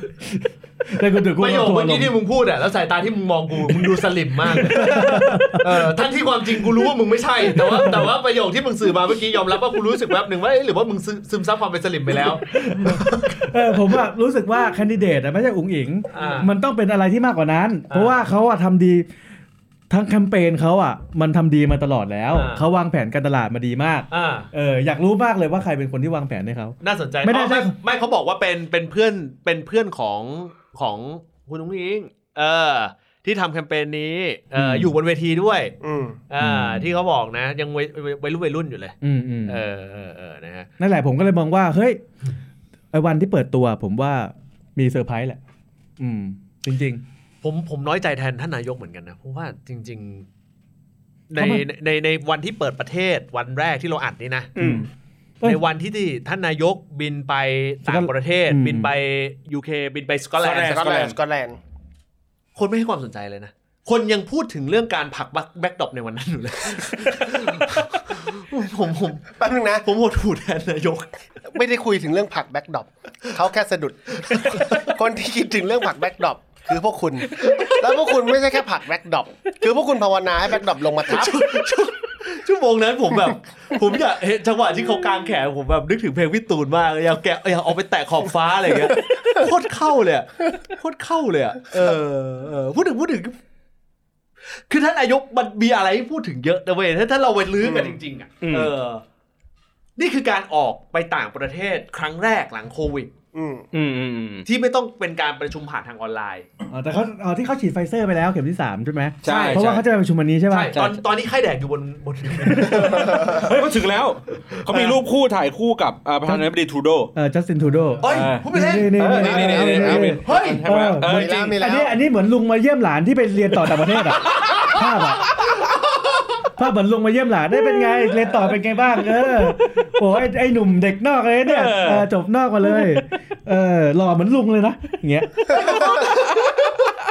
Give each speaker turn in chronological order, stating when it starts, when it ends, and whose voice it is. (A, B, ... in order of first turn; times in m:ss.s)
0:00.2-0:02.1 A
0:01.4-0:13.6 B
0:03.7-0:05.9 A
0:07.4-0:08.2 A
0:12.5-0:19.1 A
0:16.1-0:16.5 B
0:17.9-0:18.1 B
0:19.9-0:27.7 A
0:22.3-0:22.6 B
0:24.1-0:24.5 B
0:26.8-0:35.7 B
0:34.6-0:34.9 A
0:35.8-0:36.2 C
0:36.3-0:40.7 B
0:36.4-0:36.9 A
0:39.0-0:39.6 A
0:40.8-0:42.0 A
0:42.9-0:45.4 A
0:46.0-0:47.0 A
0:47.4-0:50.3 B
0:51.3-0:54.5 B
0:51.4-0:51.6 A
0:54.6-0:54.8 D
0:54.6-0:54.9 A
0:55.4-1:01.1 B
0:57.8-0:58.9 A
1:00.4-1:01.2 D
1:00.6-1:01.6 C
1:02.6-1:11.1 B
1:09.4-1:09.9 C
1:11.5-1:21.5 C
1:14.2-1:14.8 B
1:17.4-1:17.8 B
1:21.1-1:33.4 B
1:34.6-1:39.0 B
1:37.6-1:37.9 C
1:38.4-1:38.7 D
1:40.0-1:43.1 B
1:43.3-1:43.7 C
1:43.7-1:44.4 D
1:44.4-1:46.5 B
1:46.7-1:51.0 A
1:49.2-1:49.8 D
1:49.2-1:49.8 B
1:50.5-1:53.5 B
1:52.4-1:53.2 A
1:52.9-1:57.1 D
1:54.5-1:55.0 B
1:57.1-2:05.6 A
1:58.0-2:00.6 B
1:58.1-2:01.6 D
1:59.6-2:00.0 C
2:01.0-2:02.0 C
2:04.2-2:04.7 D
2:06.6-2:16.0 A
2:11.4-2:12.0 D
2:15.6-2:16.9 D
2:15.6-2:16.1 B
2:15.7-2:15.9 C